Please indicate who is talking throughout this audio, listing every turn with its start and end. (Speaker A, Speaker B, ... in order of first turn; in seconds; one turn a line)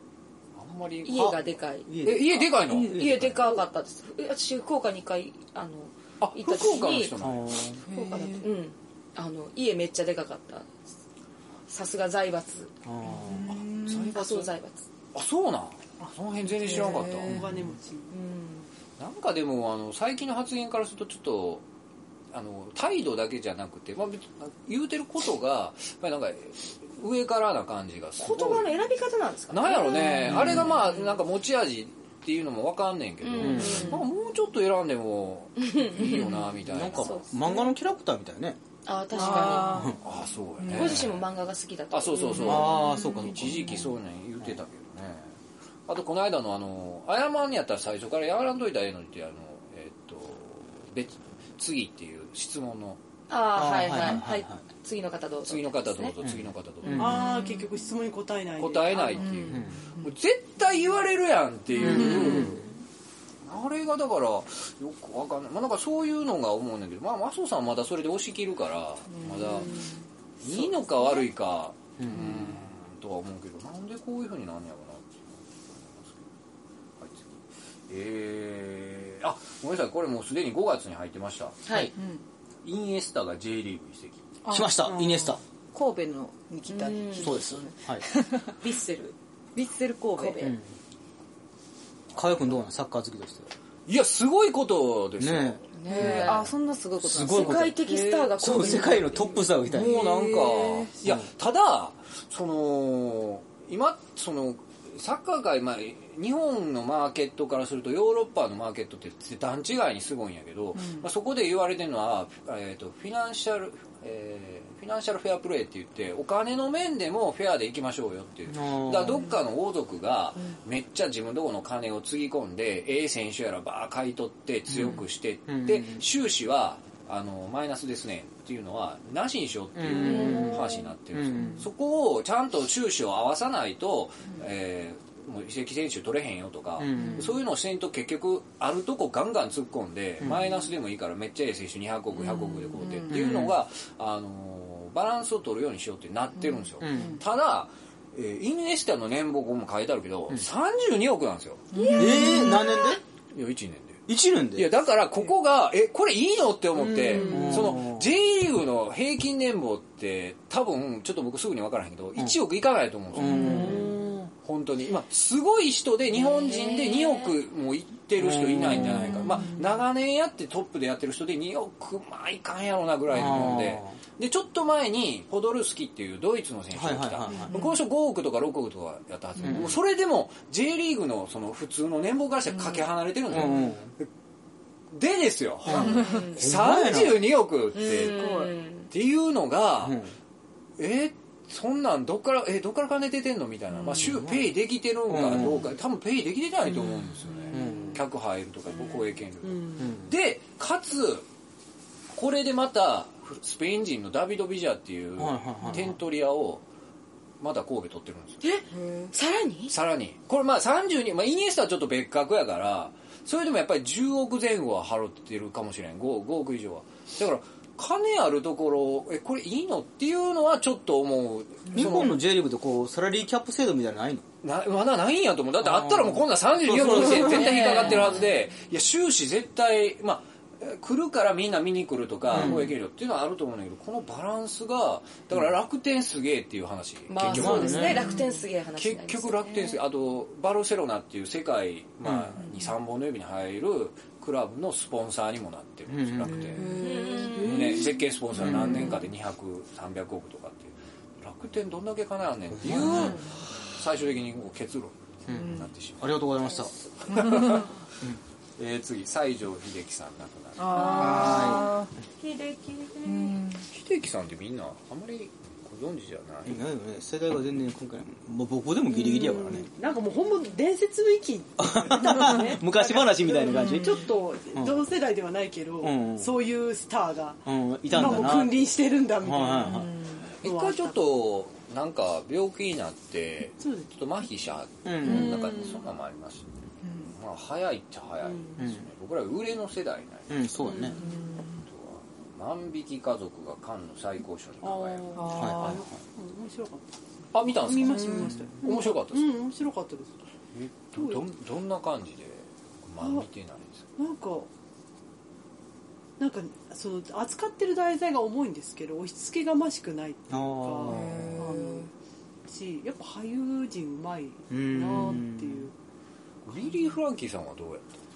Speaker A: 0.6-3.3
Speaker B: 1.0-1.9
Speaker C: 1.9-3.5
Speaker B: 2.7-7.1
Speaker A: 6.2-7.5
Speaker C: 7.2-7.8
Speaker D: 7.8-8.5
Speaker B: 7.9-10.7
Speaker B: 11.7-12.7
Speaker C: 12.8-13.6
Speaker D: 13.1-14.1
Speaker A: 13.8-14.5
Speaker B: 14.1-14.8
Speaker A: 15.1-17.4
Speaker D: 16.6-17.4
Speaker E: 16.6-18.1
Speaker C: 17.3-17.7
Speaker B: 18.1-18.7
Speaker A: 19.0-21.6
Speaker A: 22.3-28.7
Speaker B: 28.2-31.2
Speaker A: 29.5-37.2
Speaker C: 30.2-30.7
Speaker B: 33.2-34.0
Speaker C: 33.4-33.9
Speaker B: 35.6-37.7
Speaker C: 36.6-38.6
Speaker B: 38.9-39.9
Speaker D: 39.1-40.0
Speaker C: 39.6-40.0
Speaker A: 40.0-41.2
Speaker D: 40.6-40.9
Speaker B: 40.7-42.8
Speaker A: 41.9-45.3
Speaker C: 42.4-44.5
Speaker D: 42.5-43.4
Speaker A: 45.9-53.0
Speaker B: 53.3-56.1
Speaker C: 53.5-54.6
Speaker A: 55.5-57.2
Speaker C: 56.2-57.2
Speaker E: 57.0-59.4
Speaker D: 57.0-57.6
Speaker A: 58.6-62.6
Speaker D: 59.2-59.6
Speaker C: 59.5-59.8
Speaker D: 61.8-62.6
Speaker C: 61.8-62.6
Speaker A: 63.4-69.8
Speaker D: 69.1-69.8
Speaker A: 70.4-76.2
Speaker B: 70.4-71.2
Speaker C: 72.0-72.6
Speaker A: 77.0-81.9
Speaker B: 81.7-81.9
Speaker D: 82.0-82.2
Speaker A: 82.6-84.2
Speaker D: 84.4-88.5
Speaker C: 84.5-85.4
Speaker B: 86.7-87.4
Speaker C: 87.2-88.0
Speaker B: 88.6-89.1
Speaker D: 89.5-90.5
Speaker B: 90.2-90.5
Speaker C: 90.4-90.7
Speaker C: 92.1-93.5
Speaker A: 93.9-96.0
Speaker C: 95.2-96.5
Speaker B: 95.7-96.5
Speaker D: 95.9-98.8
Speaker C: 97.0-97.8
Speaker B: 97.3-99.4
Speaker C: 98.4-100.1
Speaker A: 99.7-151.7
Speaker D: 99.8-100.9
Speaker D: 110.8-111.1
Speaker C: 118.5-119.3
Speaker C: 124.7-126.0
Speaker C: 129.7-131.6
Speaker B: 130.0-130.8
Speaker D: 130.1-130.6
Speaker D: 131.3-131.6
Speaker C: 136.8-137.3
Speaker D: 136.9-137.3
Speaker C: 140.2-140.4
Speaker D: 142.2-143.4
Speaker C: 143.1-143.6
Speaker C: 146.8-147.2
Speaker D: 146.9-147.2
Speaker D: 151.7-152.7
Speaker B: 151.7-153.0
Speaker C: 151.9-153.0
Speaker A: 153.3-154.0
Speaker C: 154.1-154.7
Speaker A: 154.5-163.9
Speaker E: 157.0-157.8
Speaker C: 157.2-158.1
Speaker C: 163.1-163.9
Speaker D: 163.2-163.8
Speaker E: 163.4-164.3
Speaker A: 164.4-184.1
Speaker B: 166.1-167.4
Speaker C: 168.2-169.3
Speaker D: 169.2-169.5
Speaker C: 173.1-174.0
Speaker C: 176.7-177.5
Speaker E: 177.3-177.7
Speaker C: 179.4-179.8
Speaker C: 183.3-183.9
Speaker A: 184.9-188.3
Speaker C: 185.6-187.3
Speaker D: 185.9-186.2
Speaker B: 186.0-186.4
Speaker B: 187.7-188.9
Speaker D: 187.9-188.5
Speaker A: 188.9-190.0
Speaker C: 189.8-190.1
Speaker A: 190.8-201.2
Speaker C: 193.9-194.5
Speaker C: 195.1-195.7
Speaker C: 197.5-198.0
Speaker E: 198.7-199.9
Speaker C: 199.8-200.1
Speaker A: 202.1-206.6
Speaker C: 205.2-206.0
Speaker A: 207.4-208.4
Speaker B: 208.4-209.7
Speaker D: 208.8-209.1
Speaker A: 209.7-222.2
Speaker C: 221.7-224.2
Speaker A: 224.4-237.9
Speaker C: 225.6-228.1
Speaker B: 227.1-228.2
Speaker C: 232.3-232.8
Speaker B: 237.1-239.5
Speaker C: 237.2-238.1
Speaker D: 237.8-238.4
Speaker A: 238.8-246.8
Speaker C: 242.0-242.3
Speaker C: 245.9-246.6
Speaker D: 246.5-249.0
Speaker B: 246.8-247.9
Speaker A: 247.3-256.2
Speaker C: 248.3-248.9
Speaker C: 252.6-253.2
Speaker C: 255.3-256.7
Speaker D: 255.3-255.7
Speaker A: 257.1-257.7
Speaker A: 258.6-261.5
Speaker D: 260.6-261.9
Speaker C: 261.0-261.7
Speaker B: 262.6-263.1
Speaker D: 263.0-263.6
Speaker A: 263.7-266.6
Speaker C: 266.4-269.7
Speaker E: 268.9-281.0
Speaker C: 271.6-274.8
Speaker D: 273.5-274.0
Speaker C: 275.8-276.4
Speaker C: 277.4-278.6
Speaker C: 279.2-279.9
Speaker A: 280.4-286.5
Speaker E: 283.6-283.9
Speaker C: 284.8-285.5
Speaker E: 285.0-285.8
Speaker D: 286.8-287.1
Speaker A: 287.1-290.4
Speaker E: 288.2-288.6
Speaker C: 288.6-288.9
Speaker C: 290.3-291.0
Speaker E: 290.6-291.1
Speaker D: 291.0-291.6
Speaker A: 291.7-295.8
Speaker E: 294.6-300.1
Speaker D: 295.1-295.8
Speaker C: 295.4-295.7
Speaker A: 297.3-299.4
Speaker C: 298.1-298.5
Speaker A: 300.5-303.9
Speaker E: 300.9-301.2
Speaker E: 303.0-303.3
Speaker E: 304.0-304.5
Speaker E: 306.2-311.8
Speaker C: 310.3-311.6
Speaker D: 310.8-311.9
Speaker E: 312.5-315.7
Speaker C: 314.5-315.7
Speaker A: 316.4-317.9